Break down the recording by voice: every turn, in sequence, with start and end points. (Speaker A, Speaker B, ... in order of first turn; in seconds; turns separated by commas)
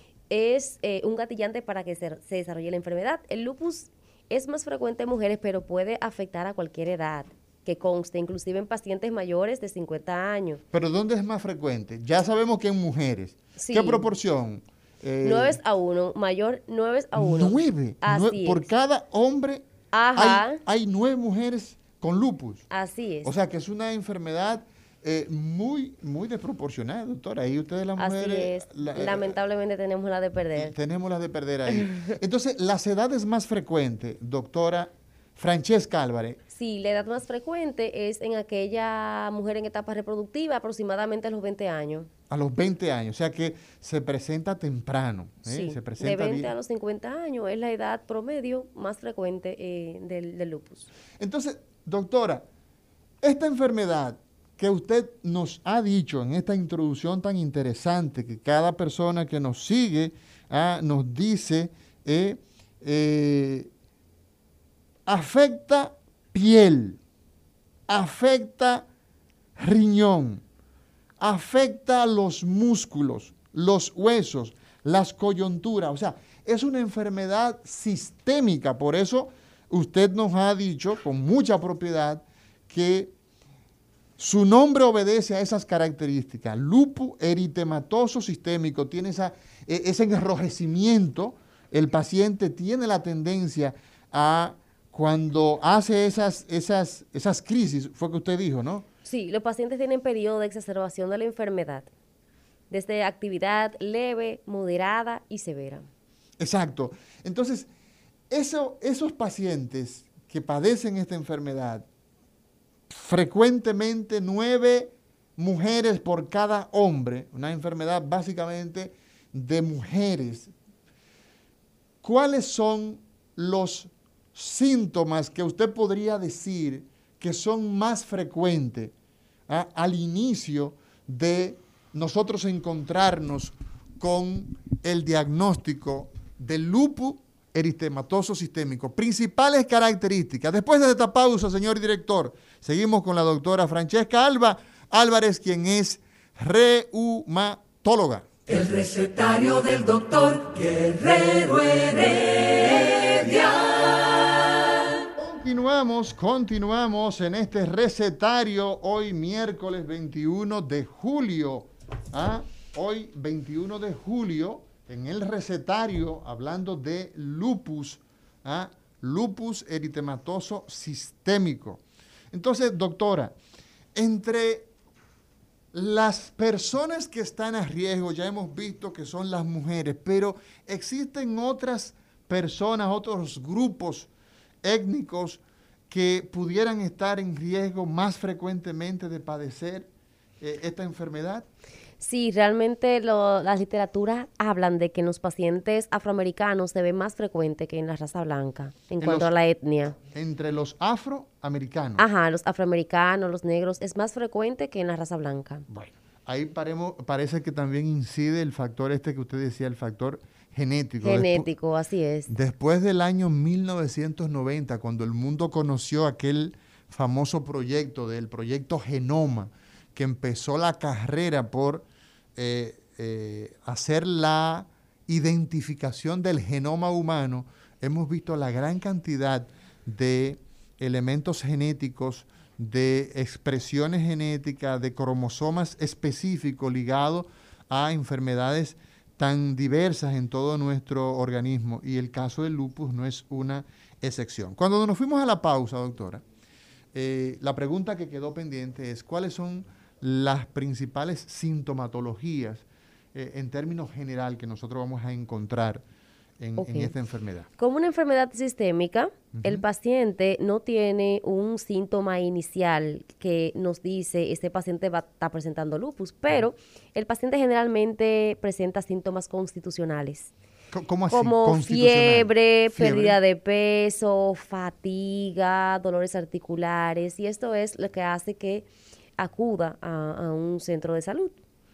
Speaker A: 0.3-10.6, Speaker B: 10.7-15.6, Speaker A: 13.6-14.1, Speaker A: 15.2-18.7, Speaker B: 17.1-22.6, Speaker A: 19.9-20.6, Speaker A: 22.7-23.3, Speaker B: 23.2-29.4, Speaker A: 28.0-30.7, Speaker B: 30.6-36.4, Speaker A: 31.7-32.2, Speaker A: 36.5-42.1, Speaker B: 42.3-46.5, Speaker A: 45.4-50.9, Speaker B: 51.2-52.5, Speaker B: 53.2-63.7, Speaker B: 65.1-67.0, Speaker B: 67.9-68.9, Speaker B: 69.6-70.4, Speaker B: 71.2-83.1, Speaker B: 84.2-98.9, Speaker A: 99.1-101.9, Speaker A: 102.7-105.9, Speaker B: 106.4-107.7, Speaker B: 108.3-111.9, Speaker B: 112.9-120.5, Speaker B: 122.0-128.9, Speaker B: 129.5-148.3, Speaker C: 148.5-154.0, Speaker B: 155.2-173.3, Speaker B: 173.9-174.7, Speaker B: 175.7-184.1, Speaker B: 184.6-189.9, Speaker B: 190.4-191.5, Speaker A: 192.0-200.0, Speaker B: 199.0-199.3, Speaker B: 200.1-202.1, Speaker A: 202.0-205.7, Speaker B: 205.7-211.5, Speaker A: 211.0-212.3, Speaker B: 212.3-221.8, Speaker B: 222.4-246.2, Speaker B: 246.9-255.8, Speaker B: 256.4-257.5, Speaker A: 256.6-256.9, Speaker A: 257.6-270.3, Speaker B: 259.3-259.6, Speaker B: 270.7-273.2, Speaker A: 271.1-278.6, Speaker A: 279.2-281.4